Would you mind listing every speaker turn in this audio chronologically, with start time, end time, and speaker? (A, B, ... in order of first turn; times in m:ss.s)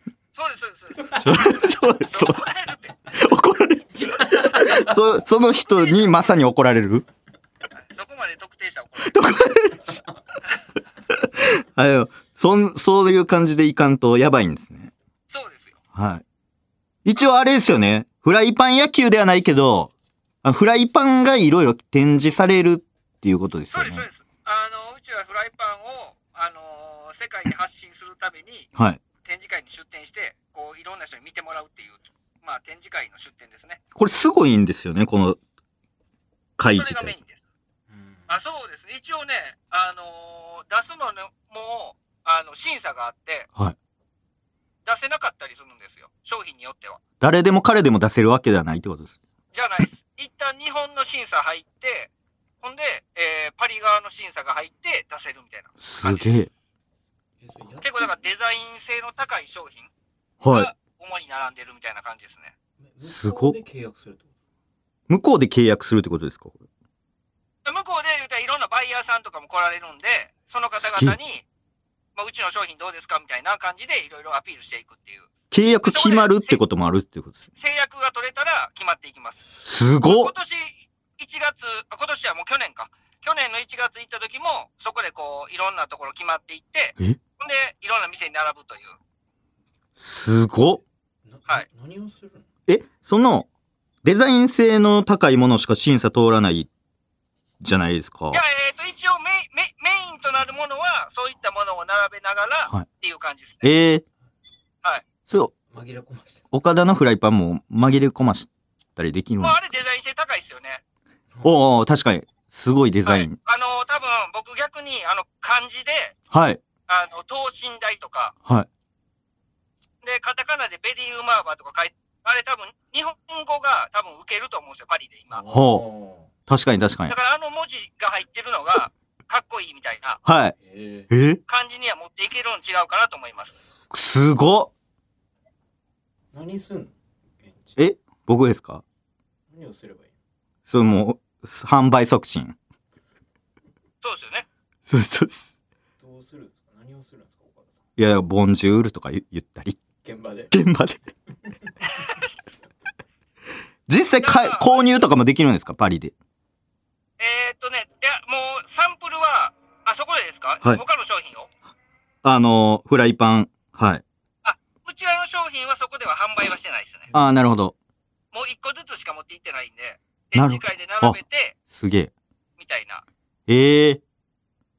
0:00.3-0:03.1 A
0:01.2-0:02.4 B
0:03.1-0:07.0 B
0:03.9-0:05.0 C
0:05.7-0:06.2 A
0:07.8-0:09.3 A
0:09.0-0:10.0 B
0:11.1-0:14.9 B
0:15.3-0:15.8 A
0:15.9-0:16.2 B
0:17.0-0:19.9 B
0:20.4-0:24.0 B
0:23.7-0:28.7 A
0:29.2-0:33.8 A
0:33.9-0:35.4 B
0:36.6-0:37.1 B
0:36.7-0:37.4 A
0:37.9-0:38.4 C
0:38.3-0:43.5 A
0:44.8-0:47.0 A
0:47.2-0:49.2 B
0:49.5-0:52.1 A
0:52.6-0:56.4 A
0:55.8-0:56.5 B
0:57.4-0:58.1 C
0:57.8-0:59.9 A
1:00.4-1:00.7 B
1:00.5-1:02.5 A
1:02.9-1:04.3 C
1:03.0-1:03.6 B
1:05.1-1:06.6 B
1:07.6-1:11.4 A
1:10.8-1:11.2 B
1:12.2-1:15.3 A
1:15.5-1:17.4 B
1:15.8-1:16.6 A
1:17.5-1:19.5 A
1:19.6-1:20.3 B
1:20.0-1:29.0 A
1:30.0-1:30.8 B
1:31.2-1:32.4 C
1:32.7-1:33.5 B
1:34.0-1:36.7 B
1:37.6-1:38.4 B
1:38.3-1:43.6 A
1:43.6-1:44.0 B
1:45.3-1:45.5 B
1:45.7-1:46.4 C
1:46.5-1:49.6 B
1:49.4-1:50.8 A
1:51.4-1:53.4 B
1:53.0-1:56.1 A
1:56.3-1:56.6 B
1:56.9-1:58.3 A
2:00.0-2:05.4 A
2:05.3-2:06.3 C
2:05.5-2:05.8 B
2:06.5-2:07.1 B
2:07.1-2:10.2 A
2:10.2-2:10.5 B
2:10.6-2:11.1 C
2:11.1-2:11.4 B
2:11.5-2:13.6 A
2:13.9-2:14.7 B
2:16.3-2:17.8 C
2:17.8-2:18.8 B
2:19.5-2:20.1 C
2:20.7-2:22.6 B
2:24.0-2:24.5 A
2:24.9-2:25.5 B
2:26.0-2:27.8 C
2:28.0-2:29.8 B
2:30.0-2:30.5 C
2:30.5-2:31.0 B
2:31.9-2:32.2 A
2:33.9-2:36.1 B
2:34.2-2:35.1 A
2:37.2-2:41.5 A
2:42.2-2:44.0 B
2:44.4-2:47.1 A
2:47.1-2:47.7 B
2:48.3-2:51.6 A
2:50.3-2:51.2 B
2:51.7-2:52.1 B
2:52.6-2:53.0 A
2:53.5-2:54.0 B